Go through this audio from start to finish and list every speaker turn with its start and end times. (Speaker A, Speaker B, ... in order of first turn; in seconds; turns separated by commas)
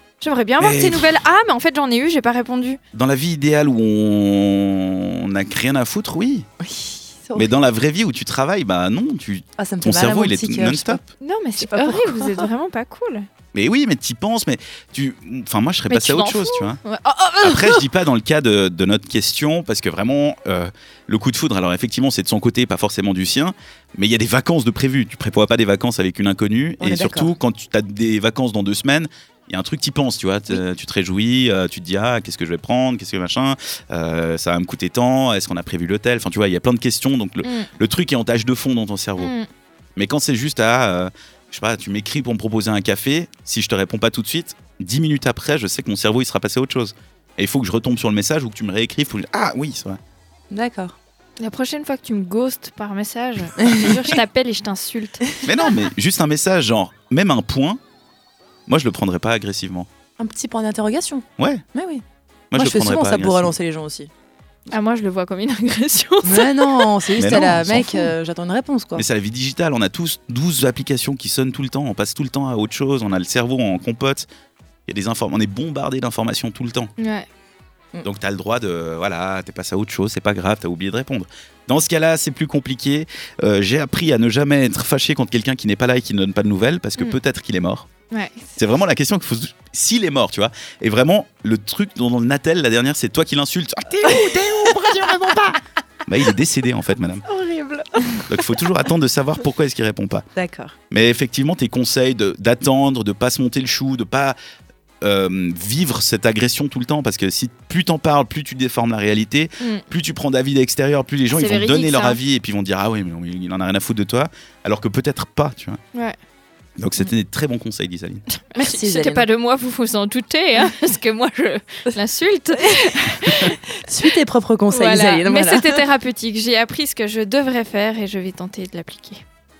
Speaker A: 0.2-2.8, Speaker B: 0.6-1.2, Speaker B: 2.9-6.5, Speaker C: 6.6-7.5, Speaker B: 7.4-11.1, Speaker C: 9.6-11.0, Speaker A: 11.2-13.3, Speaker C: 11.6-12.5, Speaker B: 13.5-16.8, Speaker A: 15.9-17.9, Speaker B: 17.4-39.3, Speaker C: 26.8-27.3, Speaker A: 37.4-37.7, Speaker A: 39.2-39.5, Speaker B: 40.0-50.0, Speaker C: 50.5-50.9, Speaker A: 51.4-55.4, Speaker C: 53.6-54.1, Speaker B: 55.4-57.8, Speaker B: 58.7-59.9, Speaker C: 60.2-62.0, Speaker B: 61.4-61.6, Speaker B: 62.5-63.5, Speaker C: 62.5-64.1, Speaker A: 64.7-66.9, Speaker C: 66.2-69.1, Speaker B: 67.2-68.2, Speaker B: 69.0-74.3, Speaker B: 74.9-76.9, Speaker A: 77.0-77.2, Speaker B: 78.0-87.9, Speaker A: 88.1-88.5, Speaker B: 88.6-95.5, Speaker C: 94.0-95.5, Speaker B: 96.1-97.2, Speaker C: 97.3-98.2, Speaker B: 98.3-100.2, Speaker C: 100.3-100.7, Speaker B: 100.9-104.4, Speaker B: 105.0-115.8, Speaker A: 111.3-112.2, Speaker B: 116.8-118.2, Speaker A: 118.5-123.6, Speaker C: 118.6-119.3, Speaker C: 123.9-125.8, Speaker A: 124.7-129.2